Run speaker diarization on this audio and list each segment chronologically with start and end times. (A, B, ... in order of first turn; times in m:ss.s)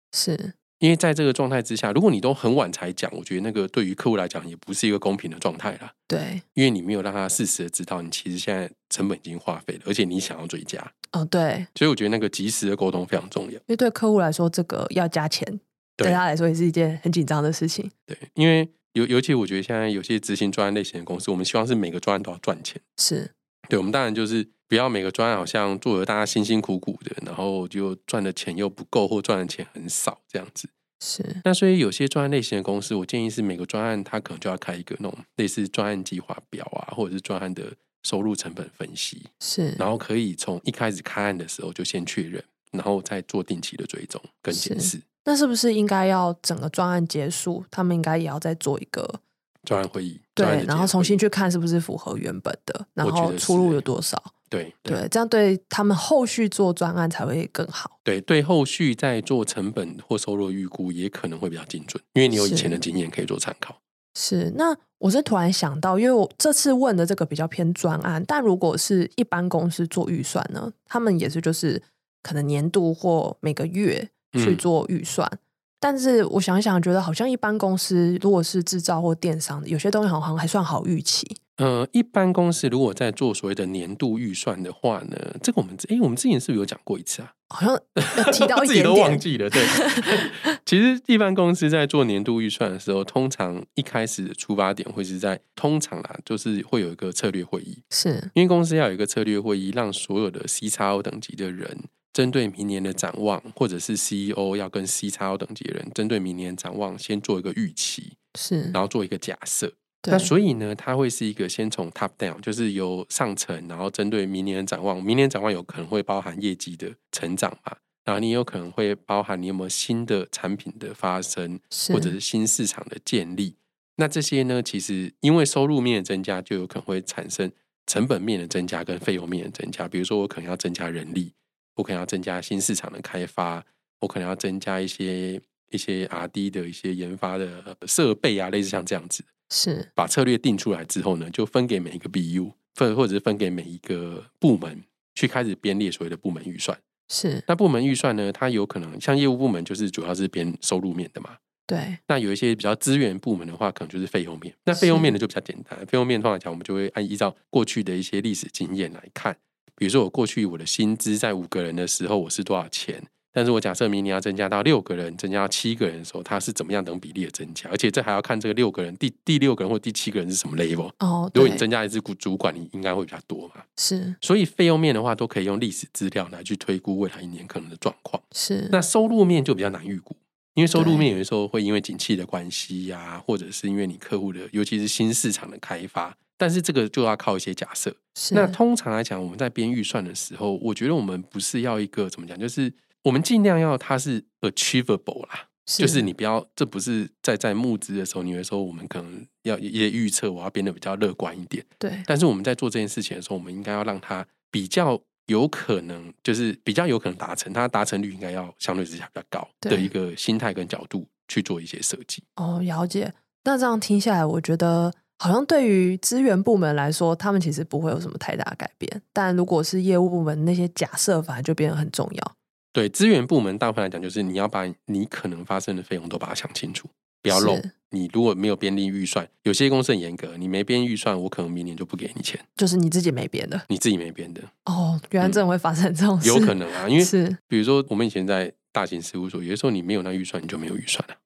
0:00.1-0:00.6 A
0:00.8-0:05.9 B
0:06.1-0:06.4 A
0:06.5-0:10.9 B
0:11.1-0:11.7 A
0:11.7-0:13.6 B
0:13.7-0:17.9 A
0:18.1-0:22.8 B
0:23.0-0:23.3 A
0:23.7-0:30.7 B
0:31.0-0:31.4 A
0:31.4-0:45.0 B
0:39.4-0:39.8 A
0:44.5-0:49.2 A
0:49.6-0:51.2 B
0:50.4-0:54.3 A
0:53.0-0:53.8 B
0:54.5-0:55.0 B
0:54.8-0:57.9 A
0:58.0-1:03.8 B
1:02.3-1:02.8 A
1:04.2-1:21.4 A
1:14.3-1:14.6 B
1:21.6-1:27.3 B
1:27.5-1:30.2 A
1:28.0-1:37.8 B
1:37.9-1:38.3 A
1:38.3-1:48.2 B
1:48.3-1:48.8 A
1:48.7-2:19.3 B
1:50.0-1:50.3 A
2:01.7-2:02.1 A
2:19.5-2:19.9 A
2:20.0-2:26.8 B
2:27.1-2:27.4 A
2:27.5-2:31.4 B
2:31.7-2:32.0 A
2:32.1-2:53.6 B
2:34.7-2:35.1 A
2:51.0-2:51.6 A
2:53.8-2:54.2 A
2:54.2-3:32.2 B
2:58.3-2:58.8 A
3:00.7-3:01.0 A
3:08.2-3:08.6 A
3:15.7-3:16.0 A
3:21.8-3:22.1 A
3:29.6-3:29.9 A
3:32.4-3:42.3 A
3:42.7-3:52.4 B
3:47.3-3:47.7 A
3:52.6-3:53.6 A
3:53.7-3:54.5 B
3:54.6-3:57.4 A
3:56.2-4:01.2 B